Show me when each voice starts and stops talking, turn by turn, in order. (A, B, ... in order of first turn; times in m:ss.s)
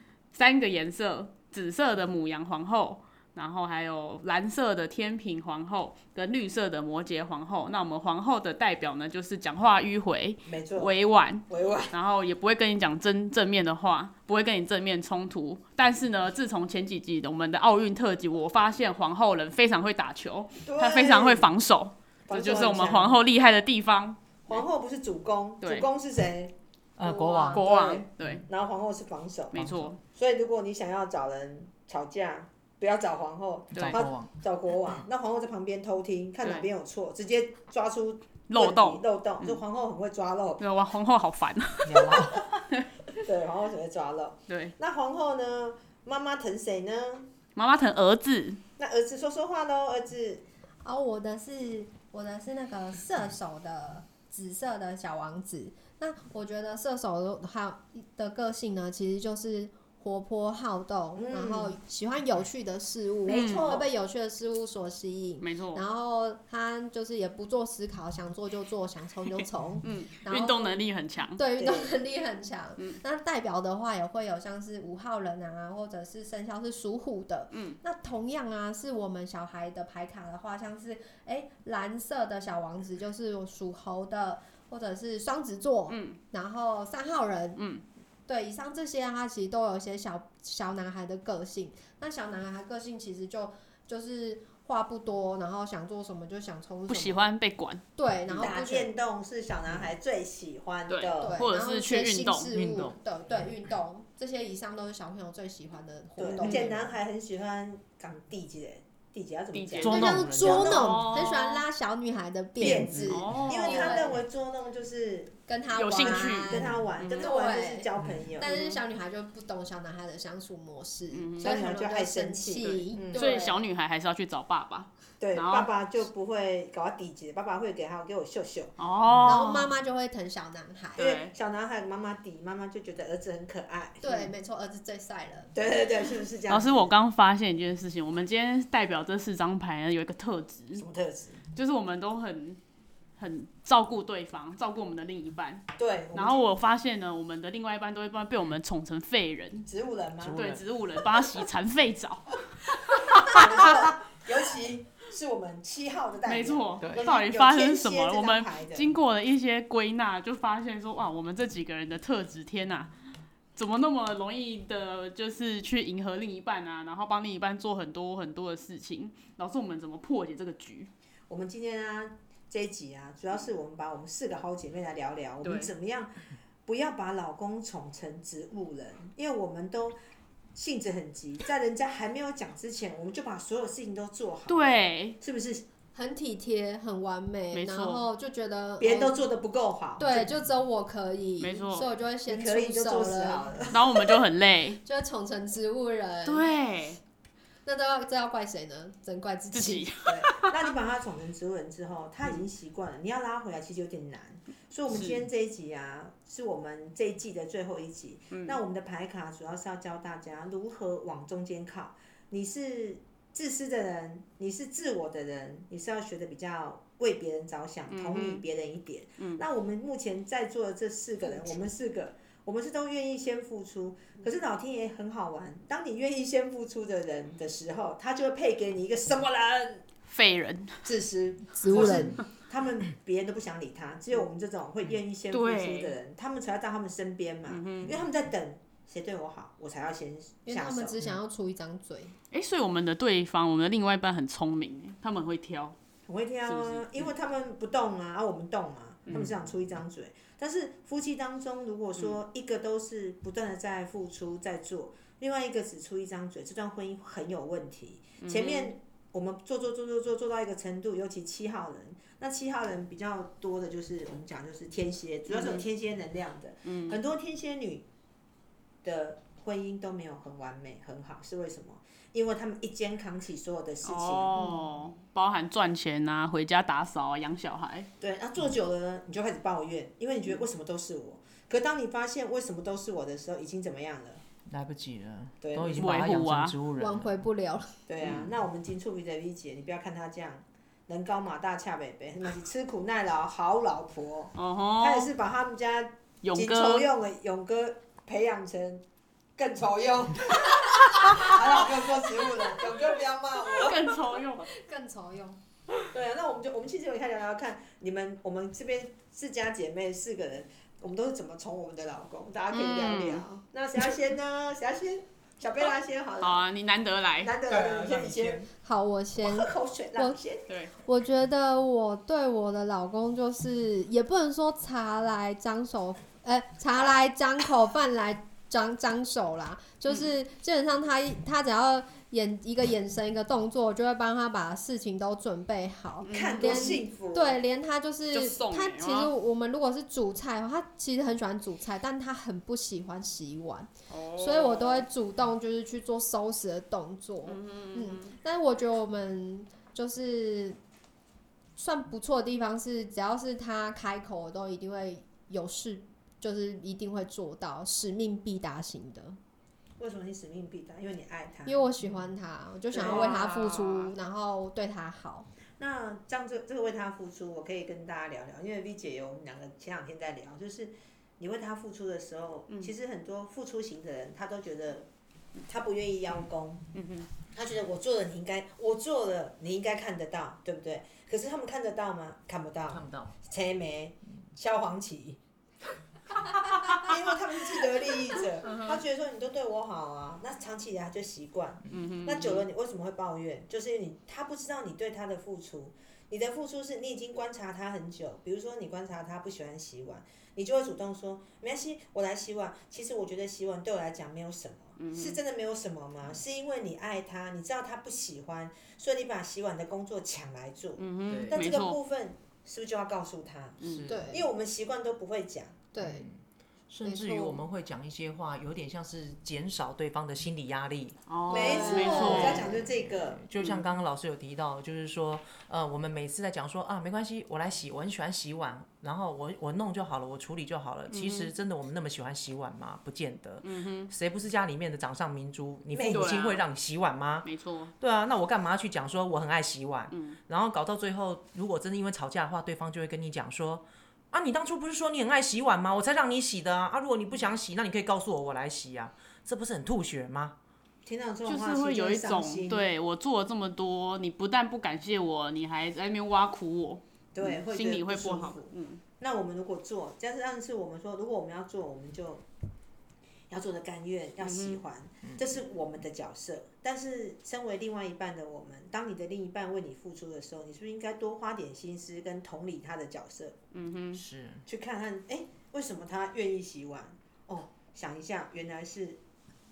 0:00.3-0:24.6 A
0:10.4-0:10.9 B
0:11.5-0:11.9 B
0:20.6-0:21.5 B
0:22.3-0:23.2 B
0:24.5-0:26.5 B
0:25.6-0:25.9 A
0:27.0-0:27.6 C
0:27.0-0:27.6 D
0:27.5-0:28.4 A
0:27.5-0:40.6 B
0:29.5-0:30.0 A
0:29.5-0:29.9 C
0:33.7-0:34.1 A
0:33.8-0:34.3 C
0:36.4-0:36.7 A
0:38.5-0:39.6 A
0:40.6-0:43.0 A
0:41.8-0:42.4 C
0:43.2-0:47.3 B
0:44.5-0:44.7 A
0:47.6-0:48.6 A
0:48.8-0:50.4 B
0:50.8-1:10.8 D
1:01.2-1:01.7 B
1:03.2-1:03.9 B
1:03.2-1:03.8 A
1:05.4-1:05.8 A
1:09.8-1:11.4 A
1:11.4-1:27.6 D
1:11.6-1:11.9 B
1:17.5-1:17.8 A
1:25.9-1:26.2 A
1:27.6-1:27.8 A
1:28.3-1:37.3 D
1:36.9-1:37.8 A
1:38.0-1:38.9 D
1:38.4-1:41.4 B
1:40.9-1:42.5 A
1:41.2-1:46.9 D
1:42.5-1:43.0 C
1:46.2-1:51.0 B
1:46.4-1:46.7 A
1:49.5-1:51.6 A
1:49.8-1:51.0 C
1:49.8-1:54.2 D
1:52.6-1:53.4 C
1:52.6-1:55.4 B
1:53.1-1:54.1 A
1:55.5-2:03.6 D
1:55.7-1:57.3 A
1:56.0-1:58.5 B
1:58.0-1:58.3 C
1:58.4-1:58.8 A
2:01.1-2:01.6 A
2:01.4-2:03.3 B
2:02.6-2:05.7 A
2:05.2-2:08.7 B
2:08.8-2:09.7 A
2:09.1-2:09.4 C
2:09.2-2:11.0 D
2:11.0-2:11.3 A
2:11.0-2:14.0 B
2:14.0-2:15.5 D
2:15.5-2:16.9 B
2:16.5-2:20.8 A
2:20.8-2:21.4 B
2:21.5-2:22.6 A
2:23.2-2:29.7 A
2:25.8-2:26.5 B
2:29.6-2:30.5 B
2:30.2-2:30.6 C
2:30.3-2:33.7 A
2:33.0-2:38.9 B
2:36.2-2:42.9 A
2:43.6-2:50.9 A
2:51.3-3:00.0 B
2:55.4-2:55.7 A
3:00.5-3:05.6 B
3:04.5-3:05.2 A
3:05.9-3:09.2 D
3:07.5-3:08.1 A
3:08.8-3:10.3 B
3:10.0-3:13.5 D
3:11.4-3:11.9 A
3:12.3-3:13.8 B
3:13.7-3:14.8 A
3:14.8-3:16.5 D
3:16.2-3:17.0 A
3:17.6-3:19.9 D
3:19.5-3:20.7 A
3:20.0-3:49.8 B
3:24.9-3:25.3 A
3:28.3-3:28.6 A
3:37.9-3:38.4 A
3:50.1-3:50.8 A
3:50.8-4:01.0 B
3:51.5-3:52.2 D
3:51.8-3:52.2 C
3:55.3-3:56.0 A
3:57.5-3:58.0 A
4:00.4-4:02.2 D
4:02.3-4:05.8 A
4:06.1-4:27.8 B
4:06.4-4:07.1 A
4:18.2-4:18.7 A
4:25.3-4:25.6 A
4:26.6-4:27.0 A
4:28.8-4:34.4 B
4:33.8-4:37.9 A
4:34.4-4:34.7 D
4:38.0-4:44.2 B
4:44.5-4:47.1 C
4:45.4-4:45.8 B
4:45.7-4:46.6 A
4:46.8-4:47.7 D
4:47.9-4:58.8 B
4:48.0-4:48.3 C
4:54.3-4:55.1 A
4:56.2-4:56.9 A
4:59.4-5:04.0 B
5:01.0-5:01.5 A
5:03.4-5:04.5 A
5:04.5-5:05.4 D
5:05.9-5:16.5 B
5:12.5-5:13.2 A
5:16.2-5:17.3 A
5:17.2-5:18.5 B
5:17.4-5:18.5 C
5:18.6-5:20.2 D
5:19.2-5:20.4 B
5:20.5-5:20.7 A
5:20.8-5:50.6 D
5:36.0-5:36.8 A
5:36.1-5:37.4 B
5:38.1-5:39.1 A
5:43.9-5:44.9 A
5:47.2-5:48.1 A
5:51.6-5:59.2 D
5:59.8-6:01.6 B
6:01.4-6:05.3 D
6:02.7-6:03.4 B
6:02.8-6:03.9 A
6:05.6-6:14.9 B
6:15.5-6:16.6 B
6:16.7-6:17.1 A
6:17.3-6:25.2 B
6:22.7-6:23.1 C
6:26.2-6:55.6 B
6:28.4-6:28.8 A
6:31.7-6:32.4 A
6:44.8-6:45.2 A
6:50.8-6:51.8 A
6:51.1-6:51.4 C
6:53.6-6:53.9 A
6:53.6-6:54.2 C
6:53.9-6:54.2 D
6:55.7-6:56.1 D
6:55.8-6:56.2 C
6:56.7-7:01.0 C
6:56.8-6:57.4 D
7:01.1-7:02.5 A
7:01.3-7:03.2 B
7:01.3-7:02.6 D
7:02.1-7:17.3 C
7:03.4-7:03.6 A
7:10.9-7:11.3 A
7:13.4-7:13.9 A
7:15.7-7:16.3 B
7:15.8-7:16.4 A
7:17.2-7:17.7 A
7:17.8-7:30.4 C
7:19.9-7:20.2 A
7:30.8-7:32.7 B
7:31.2-7:38.8 A
7:37.1-7:42.2 B
7:43.3-7:53.4 B
7:44.2-7:44.6 A
7:53.5-7:54.0 A
7:53.9-7:54.4 C
7:54.5-7:59.0 B